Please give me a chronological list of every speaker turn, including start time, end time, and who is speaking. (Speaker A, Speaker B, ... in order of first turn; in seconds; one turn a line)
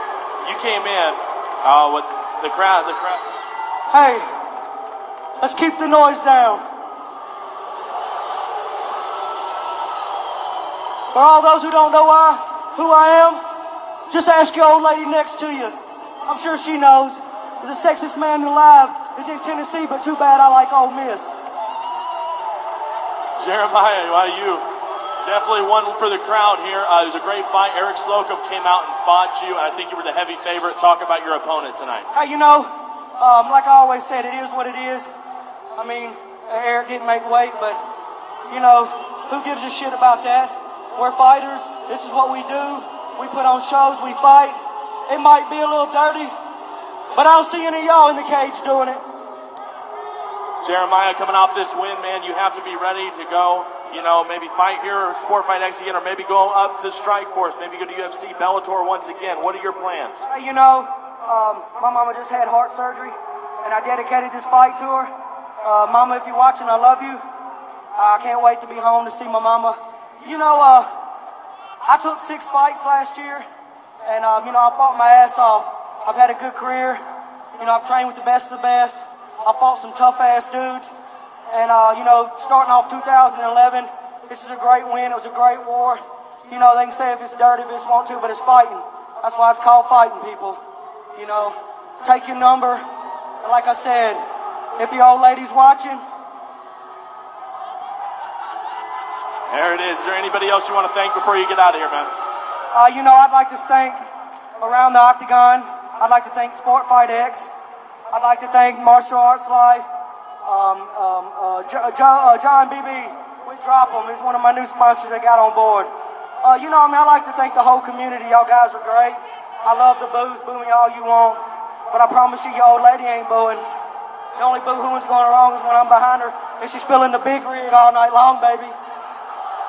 Speaker A: 0.4-3.2
Speaker B: 3.9-4.2
Speaker B: 5.4-6.6
Speaker B: 11.1-13.4
Speaker B: 14.1-21.3
Speaker A: 23.4-24.6
Speaker A: 25.2-32.1
Speaker B: 32.1-35.1
Speaker B: 35.8-37.8
Speaker B: 38.5-46.3
Speaker B: 47.1-49.0
Speaker A: 50.6-60.2
Speaker B: 60.3-65.1
Speaker B: 65.6-67.2
Speaker B: 68.0-70.9
Speaker B: 71.8-73.4
Speaker B: 74.0-77.0
Speaker B: 77.6-80.9
Speaker B: 81.5-90.6
Speaker B: 91.1-92.8
Speaker B: 93.4-94.2
Speaker B: 94.8-96.0
Speaker A: 99.5-102.1
Speaker B: 102.7-104.0
Speaker B: 104.6-107.5
Speaker B: 108.1-109.8
Speaker B: 110.4-115.9
Speaker B: 116.4-121.4
Speaker B: 121.9-123.6
Speaker B: 124.4-128.7